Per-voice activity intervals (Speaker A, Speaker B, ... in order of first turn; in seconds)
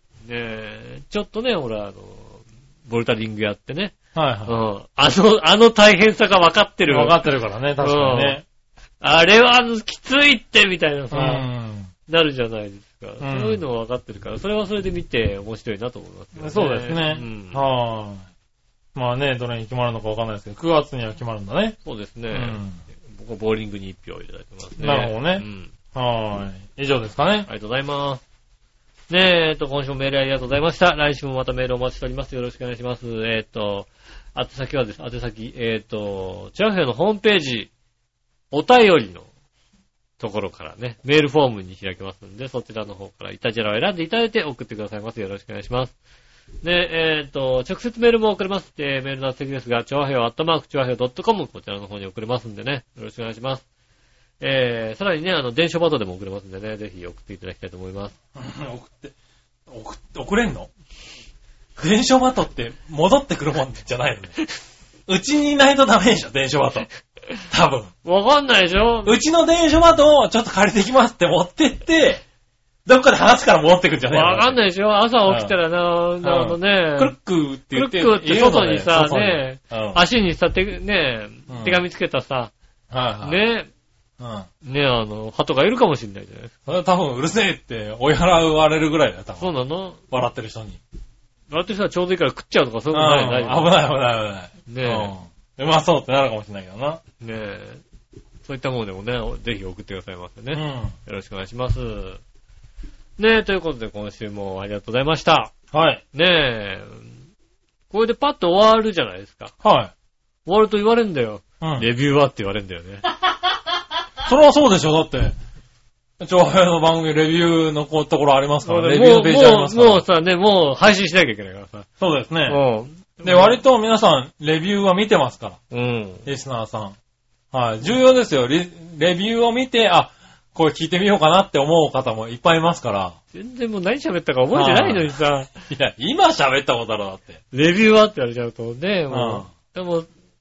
Speaker A: 0.2-7.2, 7.8-8.4, 9.0-11.5, 12.1-17.6, 21.9-25.7, 27.5-28.2, 29.1-37.7, 38.5-39.3, 40.2-45.9, 46.6-53.6, 54.4-58.1, 68.0-69.2, 74.1-77.1, 77.7-82.5, 83.2-83.7, 84.6-86.5, 89.4-90.0, 91.5-93.7, 94.7-95.1, 97.2-97.8, 98.4-102.2, 103.2-105.5, 106.1-107.1, 107.9-109.5, 110.5-113.0, 118.6-121.9, 122.5-123.6, 125.7-126.3, 133.3-135.5, 137.5-140.1
Speaker B: 4.1-4.5, 6.9-8.4, 11.1-11.9, 13.2-13.6, 16.4-18.2, 18.9-21.8, 22.3-22.8, 24.8-27.5, 58.4-59.1, 59.7-60.7, 61.8-64.3, 65.1-66.9, 67.5-67.9, 69.0-72.2, 72.9-74.6, 75.3-75.5, 76.2-80.0, 81.5-81.8, 82.9-83.4, 84.2-84.5, 86.7-89.6, 90.1-90.8, 92.9-97.0, 100.5-101.0, 105.7-106.0, 109.6-109.9, 111.6-111.9, 114.2-115.4, 116.2-120.0, 122.0-122.6, 123.2-125.6, 126.3-127.0, 127.5-133.2, 134.5-137.4, 139.1-139.5